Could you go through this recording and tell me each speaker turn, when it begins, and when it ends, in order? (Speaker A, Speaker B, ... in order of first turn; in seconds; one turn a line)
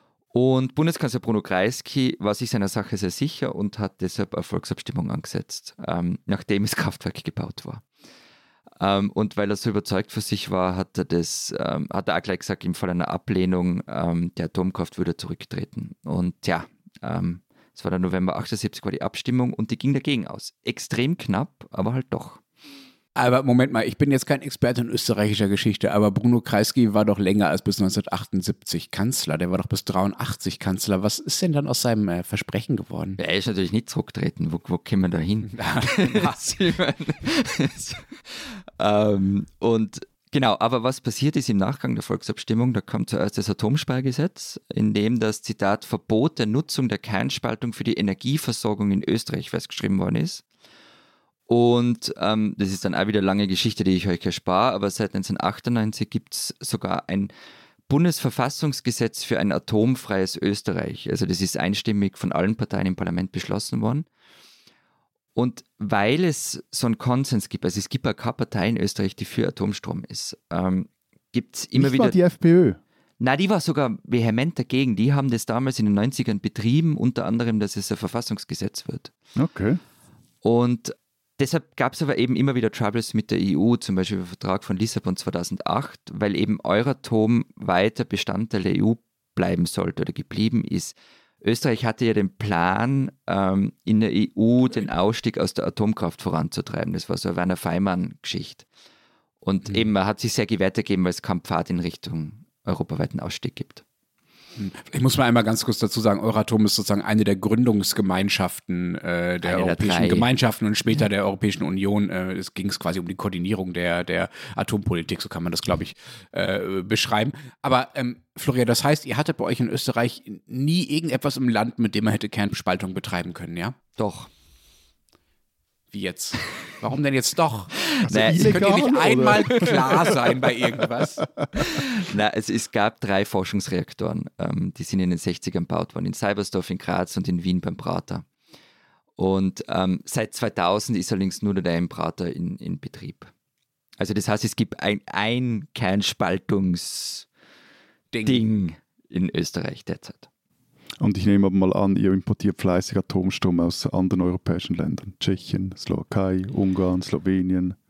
Speaker A: 0.3-7.8
Speaker A: 8.8-22.4
Speaker B: 23.1-33.2
Speaker A: 33.2-50.4
Speaker B: 35.5-36.4
Speaker A: 51.5-57.3
Speaker A: 57.9-64.0
Speaker A: 65.3-72.2
Speaker C: 71.7-72.8
Speaker A: 73.2-79.1
Speaker C: 79.3-79.8
Speaker A: 80.4-98.7
Speaker A: 99.4-103.8
Speaker B: 104.6-123.7
Speaker A: 109.4-110.3
Speaker A: 124.0-124.3
Speaker B: 125.9-131.3
Speaker C: 128.0-130.2
Speaker A: 128.1-129.6
Speaker A: 131.5-138.2
Speaker A: 139.2-143.3
Speaker A: 144.0-147.2
Speaker B: 148.1-148.4
Speaker A: 148.2-150.3
Speaker C: 151.0-157.8